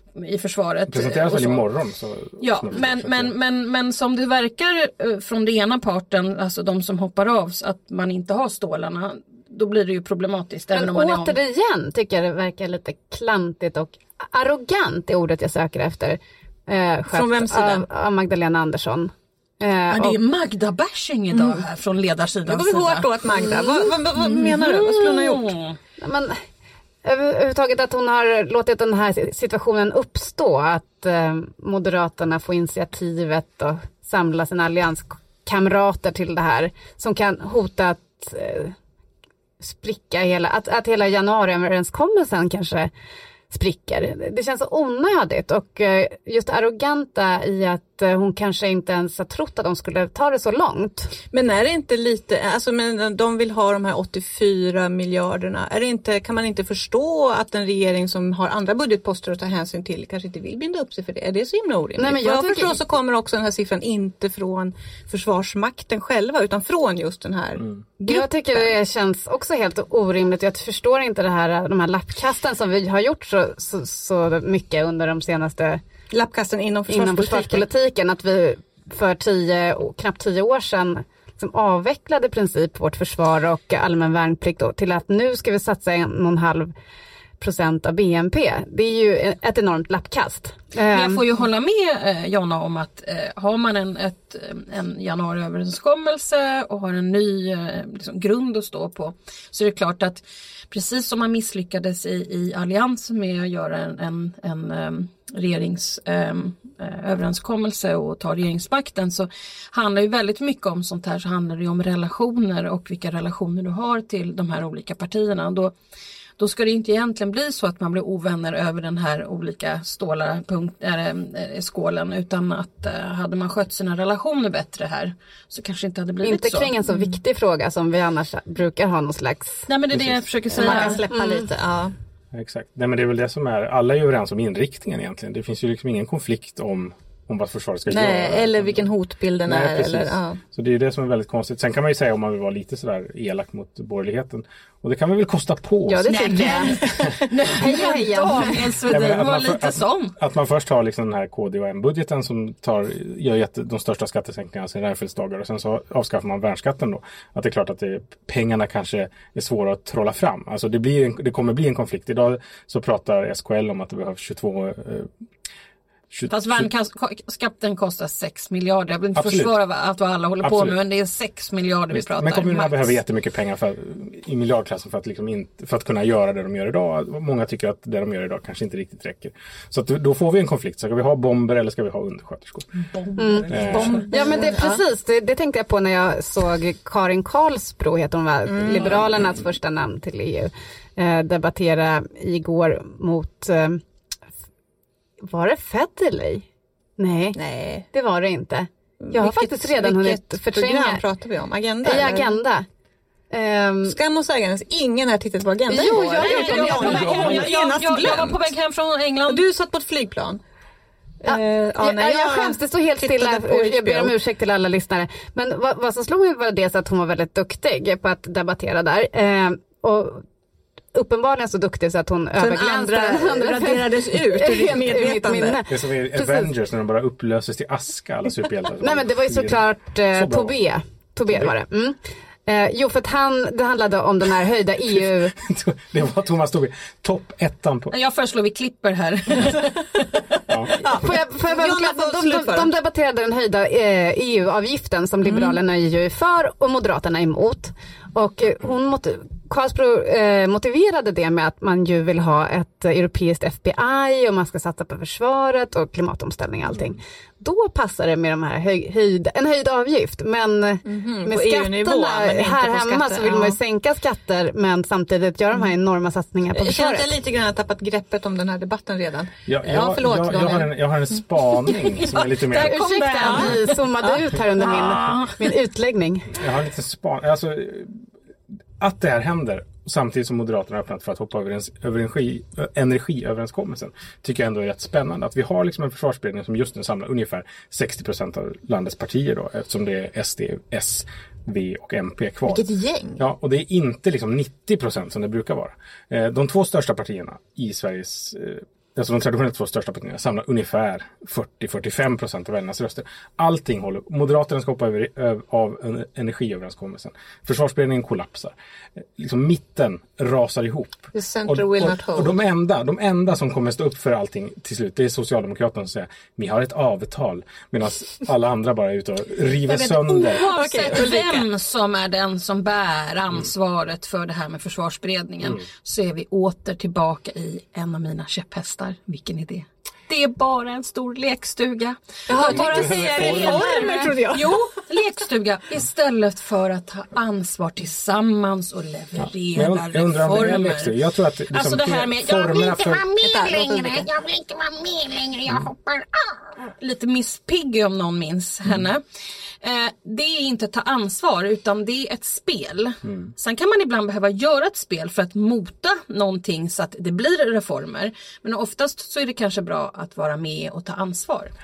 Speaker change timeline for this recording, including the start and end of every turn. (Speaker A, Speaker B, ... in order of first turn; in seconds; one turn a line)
Speaker A: 0.1-1.6
Speaker B: 0.9-3.3
Speaker A: 2.4-11.4
Speaker C: 10.7-20.2
Speaker D: 17.1-17.8
Speaker A: 19.9-25.8
Speaker D: 21.3-21.6
Speaker D: 22.5-25.5
Speaker C: 26.0-26.4
Speaker C: 27.0-38.7
Speaker C: 39.6-42.9
Speaker C: 43.5-51.1
Speaker D: 51.3-68.7
Speaker C: 62.0-62.8
Speaker C: 68.0-75.8
Speaker D: 76.1-77.7
Speaker C: 76.9-86.7
Speaker C: 87.4-91.2
Speaker A: 90.9-115.7
Speaker A: 116.4-126.7
Speaker C: 126.2-129.7
Speaker A: 129.7-131.0
Speaker B: 129.9-130.2
Speaker C: 130.5-131.5
Speaker D: 130.6-131.9
Speaker B: 132.3-138.9
Speaker D: 137.9-140.4
Speaker B: 139.4-146.1
Speaker C: 145.8-146.8
Speaker A: 146.1-150.1
Speaker D: 146.4-146.7
Speaker C: 147.5-148.8
Speaker B: 148.9-165.1
Speaker B: 166.1-166.7
Speaker A: 166.3-173.0
Speaker B: 169.2-169.5
Speaker B: 170.4-170.8
Speaker B: 171.9-182.7
Speaker A: 183.0-184.1
Speaker C: 183.2-193.8
Speaker B: 183.5-184.0
Speaker D: 183.6-184.8
Speaker D: 188.5-189.1
Speaker C: 195.2-196.4
Speaker C: 197.0-197.4
Speaker D: 197.3-197.8
Speaker C: 197.9-201.0
Speaker D: 199.0-202.3
Speaker C: 201.8-202.7
Speaker C: 203.3-204.0
Speaker D: 203.8-208.5
Speaker C: 205.7-207.5
Speaker A: 206.0-209.4
Speaker D: 209.3-210.4
Speaker D: 211.2-214.1
Speaker C: 211.2-220.2
Speaker C: 220.9-226.5
Speaker D: 222.4-225.6
Speaker B: 225.7-229.6
Speaker C: 228.8-235.3
Speaker B: 230.1-230.5
Speaker B: 235.3-237.9
Speaker A: 237.9-240.3
Speaker B: 240.5-240.8
Speaker D: 240.8-242.7
Speaker C: 240.8-267.2
Speaker D: 245.2-245.6
Speaker D: 260.9-263.6
Speaker D: 266.5-271.2
Speaker B: 269.5-272.9
Speaker A: 272.1-273.8
Speaker C: 272.5-276.4
Speaker D: 273.2-274.3
Speaker A: 274.6-275.4
Speaker B: 276.4-277.9
Speaker B: 278.8-292.6
Speaker D: 292.4-293.2
Speaker B: 293.2-320.4
Speaker D: 311.1-312.4
Speaker A: 319.7-340.9
Speaker D: 320.4-321.4
Speaker D: 332.3-334.7
Speaker B: 332.4-333.8
Speaker B: 339.2-343.0
Speaker A: 341.5-349.0
Speaker D: 343.2-344.1
Speaker A: 349.6-361.5
Speaker B: 353.0-353.3